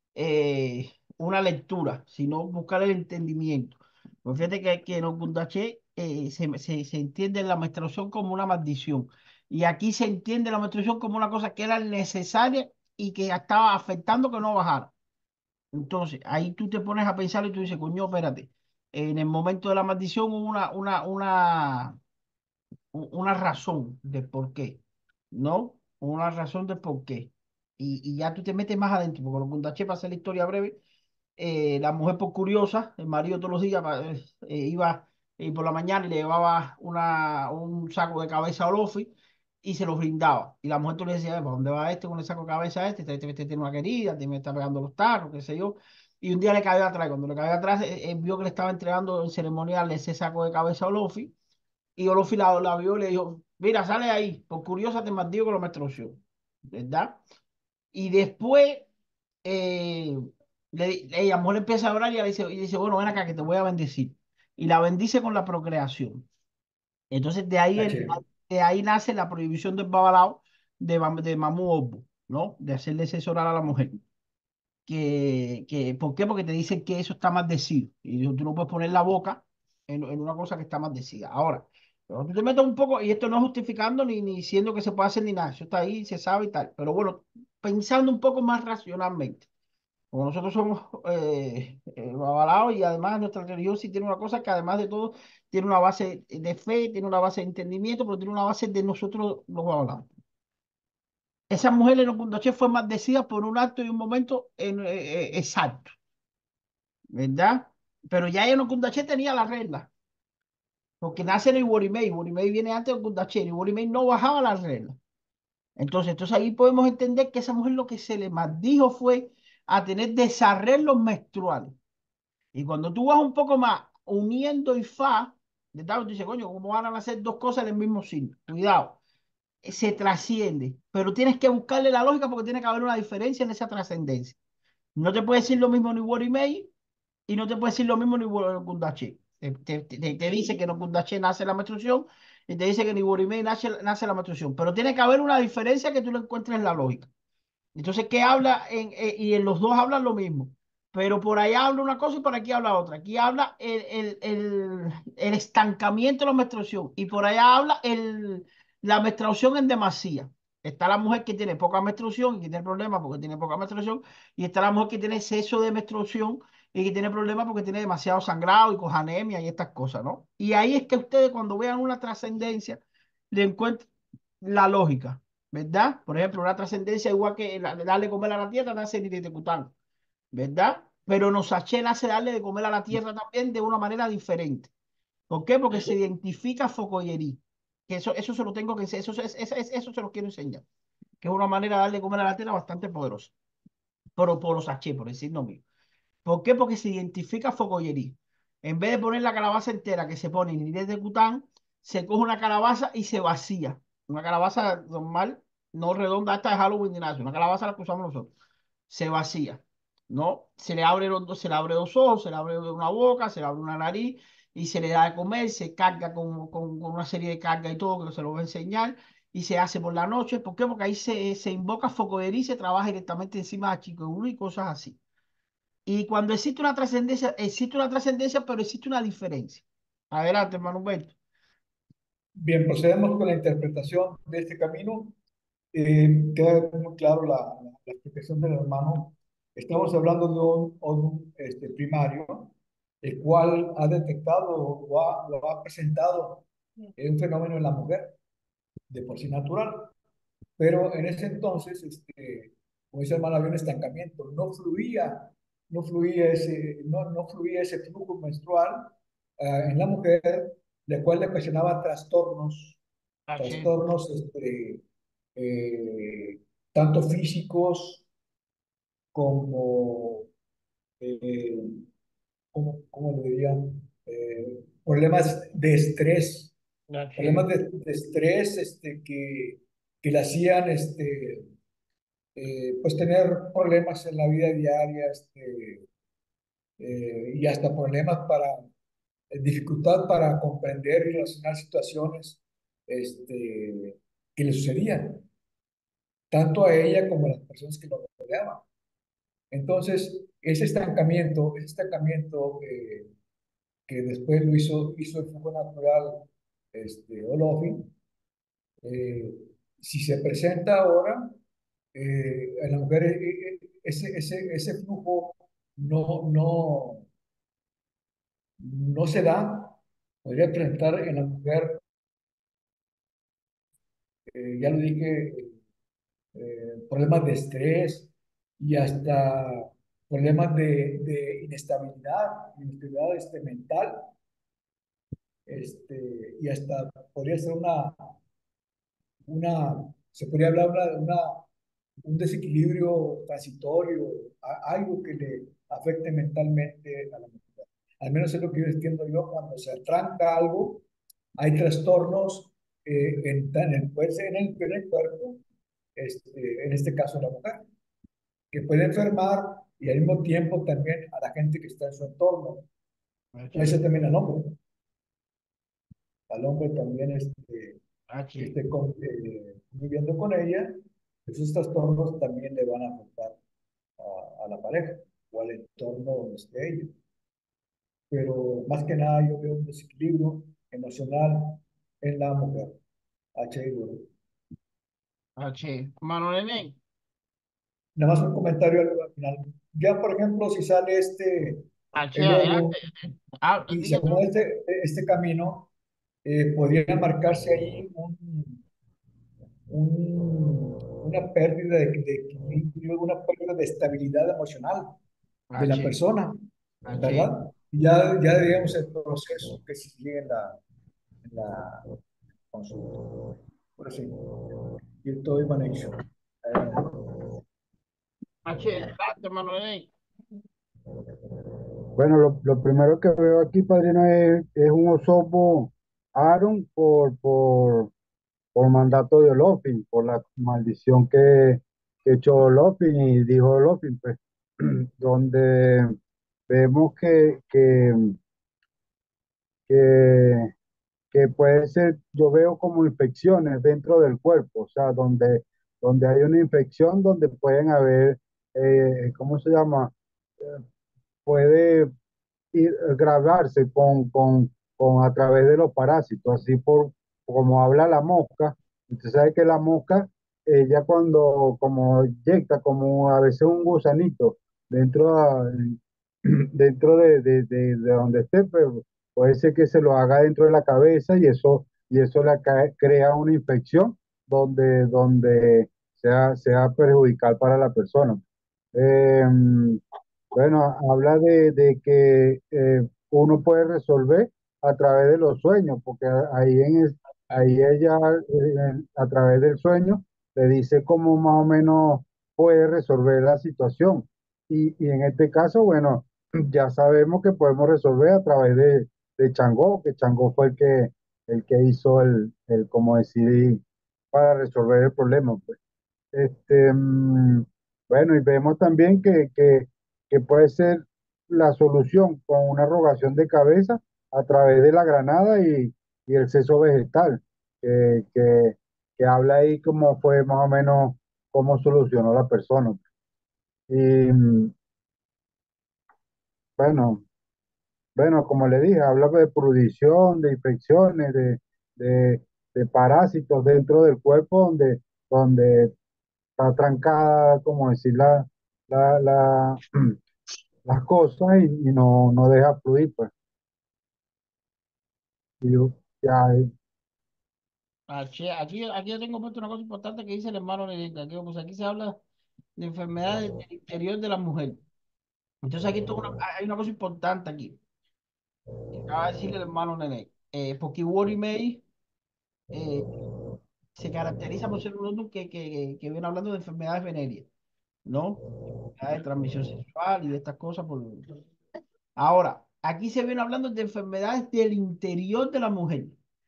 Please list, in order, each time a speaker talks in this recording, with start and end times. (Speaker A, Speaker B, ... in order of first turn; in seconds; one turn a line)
Speaker A: 0.1-14.9
Speaker A: 15.7-22.0
Speaker A: 22.9-24.8
Speaker A: 25.3-30.8
Speaker A: 31.4-39.1
Speaker A: 39.6-51.3
Speaker A: 52.0-56.2
Speaker A: 56.7-57.2
Speaker A: 57.9-58.9
Speaker A: 59.4-60.1
Speaker A: 60.7-66.2
Speaker A: 67.1-74.0
Speaker B: 67.8-68.1
Speaker A: 74.8-89.5
Speaker A: 90.1-100.1
Speaker A: 101.5-105.9
Speaker A: 107.1-109.9
Speaker A: 111.0-115.0
Speaker A: 115.8-121.8
Speaker A: 122.5-129.0
Speaker A: 129.6-134.4
Speaker A: 134.9-136.7
Speaker A: 137.3-147.1
Speaker A: 147.8-172.8
Speaker A: 173.3-173.9
Speaker A: 174.4-179.7
Speaker A: 180.3-184.7
Speaker A: 185.3-190.6
Speaker A: 191.2-193.3
Speaker A: 194.2-195.6
Speaker A: 196.2-208.3
Speaker A: 208.9-225.0
Speaker A: 225.8-231.1
Speaker B: 232.4-235.2
Speaker B: 235.7-246.4
Speaker B: 247.0-248.2
Speaker B: 248.9-249.9
Speaker B: 250.6-262.8
Speaker A: 263.3-263.7
Speaker B: 263.4-264.8
Speaker B: 265.4-268.0
Speaker B: 269.1-270.3
Speaker B: 271.0-271.8
Speaker B: 272.5-276.5
Speaker A: 276.9-277.5
Speaker B: 277.1-281.4
Speaker B: 282.4-285.8
Speaker B: 286.8-288.6
Speaker B: 289.3-295.2
Speaker B: 296.3-298.6
Speaker B: 299.5-303.1
Speaker B: 303.9-307.9
Speaker B: 308.8-311.4
Speaker B: 311.9-317.1
Speaker B: 318.6-321.8
Speaker B: 324.3-325.5
Speaker B: 326.3-334.1
Speaker B: 335.5-338.1
Speaker B: 339.3-341.4
Speaker B: 342.0-350.8
Speaker B: 351.4-355.4
Speaker B: 355.9-357.6
Speaker B: 358.5-362.7
Speaker A: 363.3-363.8
Speaker B: 363.5-364.6
Speaker B: 366.3-367.8
Speaker A: 368.1-368.5
Speaker B: 368.4-373.4
Speaker B: 374.0-376.9
Speaker B: 378.1-382.8
Speaker B: 383.4-384.1
Speaker A: 385.4-386.8
Speaker B: 387.9-392.8
Speaker A: 391.9-394.2
Speaker B: 393.7-395.7
Speaker B: 396.2-398.6
Speaker B: 399.7-404.9
Speaker A: 405.5-405.9
Speaker B: 405.6-406.4
Speaker A: 406.8-407.3
Speaker B: 407.0-410.6
Speaker B: 411.2-411.8
Speaker B: 412.5-413.0
Speaker B: 413.8-414.2
Speaker B: 415.0-415.9
Speaker B: 416.4-416.8
Speaker A: 418.4-419.9
Speaker C: 421.9-427.9
Speaker C: 428.5-435.9
Speaker C: 436.5-438.1
Speaker C: 439.7-440.5
Speaker C: 441.1-450.6
Speaker C: 451.2-451.9
Speaker C: 452.5-465.8
Speaker C: 466.3-478.2
Speaker C: 478.7-479.8
Speaker C: 480.3-503.6
Speaker C: 504.1-505.6
Speaker C: 506.1-522.8
Speaker C: 523.7-524.5
Speaker C: 526.6-527.0
Speaker C: 528.0-535.7
Speaker C: 536.4-539.9
Speaker C: 540.6-543.1
Speaker C: 545.4-546.5
Speaker A: 547.9-552.0
Speaker A: 552.6-554.6
Speaker A: 555.4-557.6
Speaker A: 558.8-561.6
Speaker A: 562.5-562.8
Speaker A: 563.8-567.3
Speaker A: 567.9-568.2
Speaker A: 568.8-571.1
Speaker A: 572.0-576.0